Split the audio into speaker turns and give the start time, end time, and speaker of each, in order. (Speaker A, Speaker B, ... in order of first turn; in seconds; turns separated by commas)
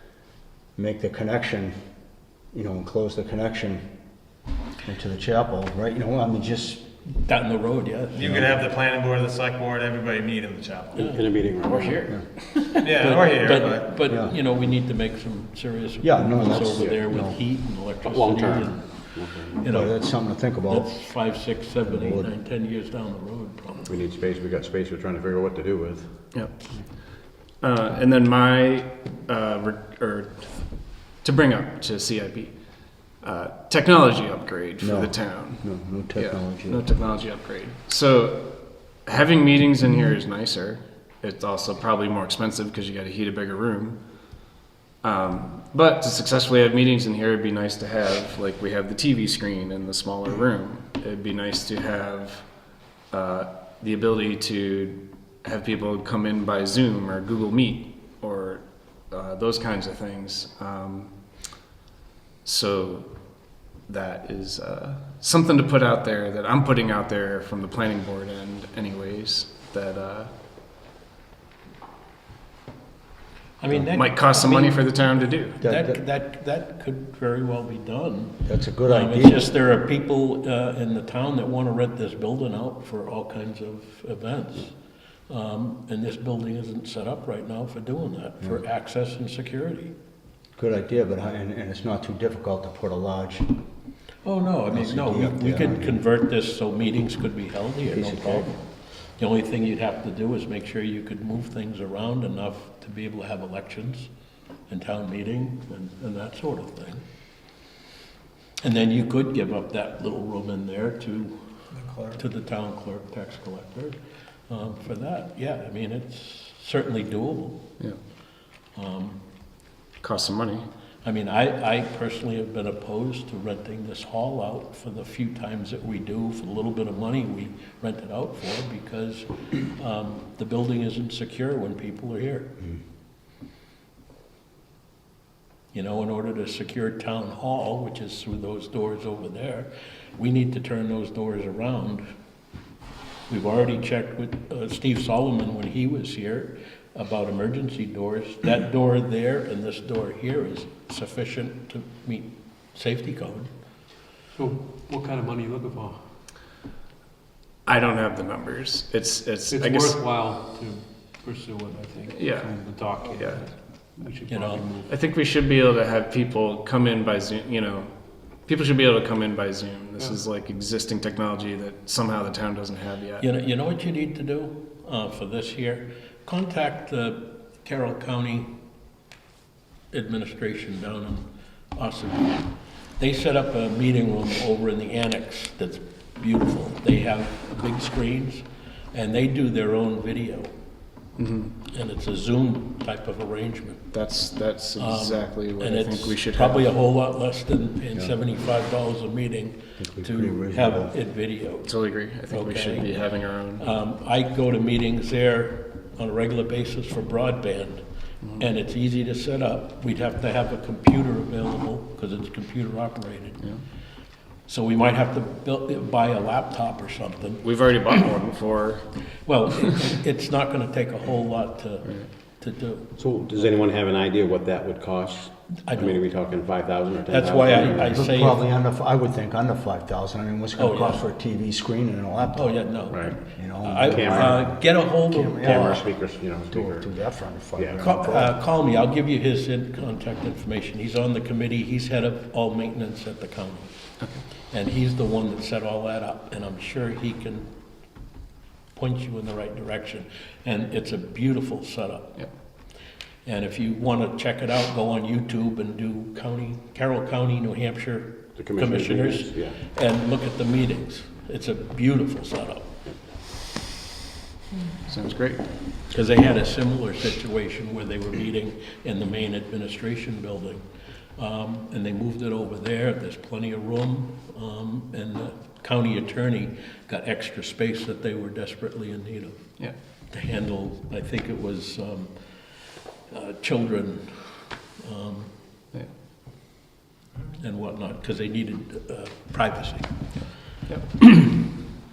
Speaker A: 0.8-1.8, Speaker A: 2.5-3.9, Speaker A: 4.8-6.8, Speaker B: 7.0-8.4, Speaker C: 8.1-11.1, Speaker A: 8.2-8.6, Speaker D: 10.9-12.1, Speaker B: 10.9-12.0, Speaker B: 12.6-23.9, Speaker C: 12.8-13.9, Speaker A: 14.0-14.3, Speaker A: 16.0-17.4, Speaker D: 16.7-17.0, Speaker D: 18.0-19.7, Speaker A: 19.6-20.9, Speaker A: 21.9-22.3, Speaker D: 23.9-26.1, Speaker E: 26.3-44.0, Speaker A: 34.8-36.9, Speaker E: 45.0-52.5, Speaker E: 53.1-61.2, Speaker E: 62.4-63.2, Speaker E: 63.8-70.3, Speaker B: 73.6-84.8, Speaker E: 73.9-75.6, Speaker A: 75.6-76.0, Speaker A: 78.4-79.5, Speaker B: 85.3-89.9, Speaker A: 90.5-93.6, Speaker B: 94.2-104.1, Speaker A: 94.7-96.0, Speaker A: 97.8-98.5, Speaker B: 104.7-107.0, Speaker B: 108.6-111.3, Speaker C: 111.7-112.2, Speaker B: 112.1-114.0, Speaker B: 114.5-117.7, Speaker B: 118.7-119.2, Speaker E: 120.0-120.7, Speaker B: 121.0-132.6, Speaker B: 135.7-142.0, Speaker B: 143.3-153.5, Speaker F: 154.3-155.9, Speaker E: 157.7-160.0, Speaker F: 159.5-163.4, Speaker E: 162.1-163.4, Speaker F: 163.9-164.9, Speaker B: 164.3-164.7, Speaker E: 164.9-167.9, Speaker E: 168.4-173.2, Speaker B: 173.2-178.5, Speaker B: 179.9-181.2, Speaker B: 181.7-190.5, Speaker E: 191.2-191.5, Speaker B: 191.7-193.8, Speaker E: 193.9-196.7, Speaker B: 194.8-201.7, Speaker A: 199.8-200.9, Speaker E: 201.6-203.7, Speaker B: 202.3-202.9, Speaker B: 203.6-207.8, Speaker B: 208.4-213.4, Speaker B: 214.5-217.5, Speaker E: 217.4-218.9, Speaker B: 219.2-222.9, Speaker D: 222.9-228.1, Speaker B: 225.7-226.0, Speaker B: 227.1-228.4, Speaker A: 227.5-238.3, Speaker B: 230.6-231.1, Speaker B: 232.3-235.8, Speaker D: 232.9-233.2, Speaker D: 233.8-234.6, Speaker D: 235.4-236.9, Speaker D: 237.5-237.8, Speaker B: 237.8-243.7, Speaker B: 244.5-247.5, Speaker B: 248.7-252.3, Speaker B: 253.2-262.7, Speaker D: 258.4-259.6, Speaker E: 264.9-265.4, Speaker B: 265.9-270.6, Speaker B: 271.2-279.4, Speaker B: 280.1-282.1, Speaker B: 283.1-285.3, Speaker B: 287.3-290.2, Speaker B: 291.0-291.5